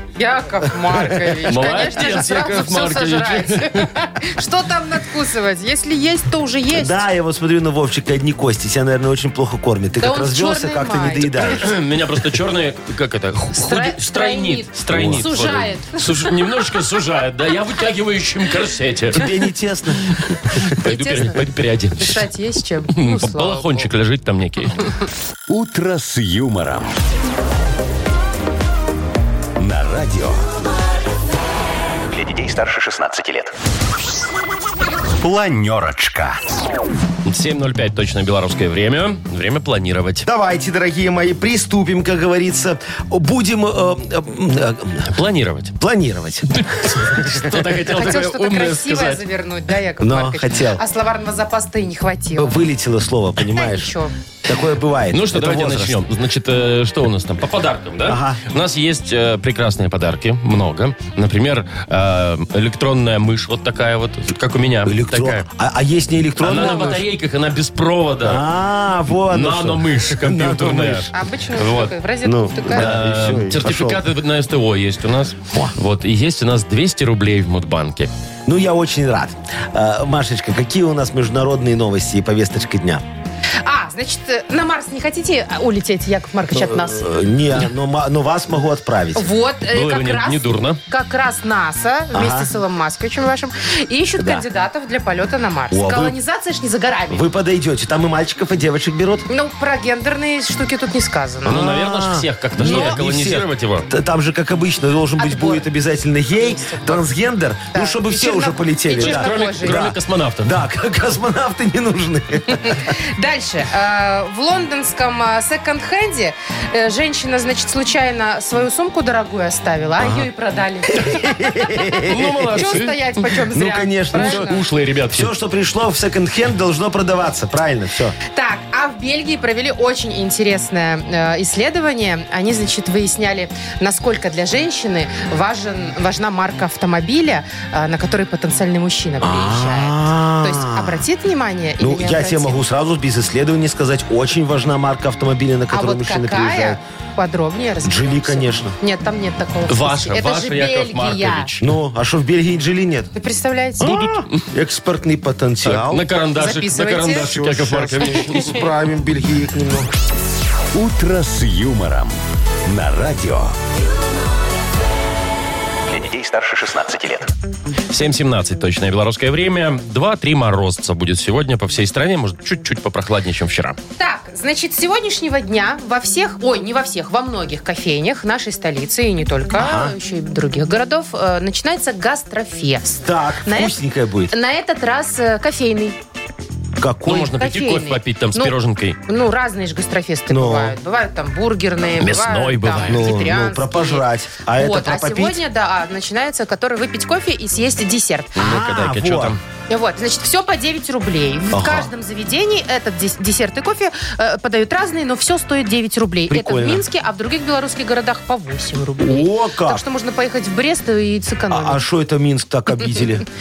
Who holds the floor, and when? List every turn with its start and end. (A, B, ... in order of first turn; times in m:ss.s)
0:00.2-0:07.0 A
0:00.8-0:01.8 B
0:01.5-0:03.9 C
0:06.7-0:11.8 B
0:10.0-0:11.6 A
0:11.5-0:19.2 C
0:13.5-0:16.0 A
0:14.9-0:15.3 B
0:19.1-0:20.6 B
0:20.6-0:22.2 C
0:20.8-0:21.4 A
0:22.0-0:23.8 A
0:22.9-0:24.8 C
0:25.5-0:26.9 D
0:29.6-0:30.5 D
0:32.1-0:33.5 D
0:35.2-0:36.4 D
0:37.2-0:40.2 C
0:40.2-0:45.1 B
0:45.1-0:45.7 C
0:45.8-0:47.5 B
0:46.5-0:49.2 C
0:47.9-0:52.6 A
0:50.0-0:50.8 B
0:52.4-0:53.9 B
0:53.5-0:54.1 A
0:54.4-0:56.0 B
0:55.1-1:05.5 C
0:58.0-0:58.4 B
1:04.8-1:07.0 B
1:06.4-1:08.4 C
1:06.5-1:07.0 A
1:08.2-1:11.1 B
1:09.2-1:11.9 C
1:11.1-1:12.9 A
1:12.2-1:14.0 B
1:12.7-1:18.1 C
1:18.5-1:23.0 B
1:23.6-1:27.1 A
1:26.5-1:29.3 B
1:29.1-1:37.3 A
1:29.7-1:30.8 C
1:32.1-1:32.5 B
1:34.2-1:34.4 B
1:35.7-1:36.2 B
1:37.1-1:39.3 B
1:39.3-1:41.6 A
1:41.4-1:43.9 C
1:41.4-1:52.9 B
1:42.6-1:43.0 A
1:45.2-1:45.6 A
1:46.3-1:47.0 A
1:47.7-1:49.8 A
1:49.0-1:50.6 C
1:52.5-2:04.6 A
2:00.0-2:00.3 B
2:00.9-2:02.7 B
2:02.0-2:03.3 C
2:03.5-2:04.5 B
2:04.1-2:05.3 C
2:05.1-2:08.1 B
2:08.3-2:22.6 A
2:19.2-2:21.0 B
2:21.8-2:26.8 B
2:25.7-2:31.5 A
2:27.8-2:28.8 B
2:29.7-2:31.7 C
2:31.6-2:33.1 B
2:33.1-2:33.9 A
2:33.8-2:36.0 B
2:33.8-2:34.4 C
2:35.6-2:38.6 C
2:36.3-2:37.3 A
2:37.1-2:39.9 B
2:40.7-2:43.5 D
2:45.9-2:47.3 D
2:47.9-2:53.8 C
2:54.0-3:03.7 A
2:59.5-2:59.9 B
3:03.0-3:04.3 B
3:04.3-3:06.0 A
3:06.8-3:07.4 B
3:07.0-3:09.0 C
3:07.4-3:08.5 A
3:09.0-3:18.4 A
3:10.3-3:10.7 B
3:12.0-3:13.1 C
3:12.9-3:15.4 B
3:18.4-3:19.4 C
3:18.4-3:19.4 B
3:19.7-3:31.8 A
3:21.5-3:21.9 B
3:26.3-3:26.8 B
3:29.0-3:29.8 B
3:31.5-3:33.2 B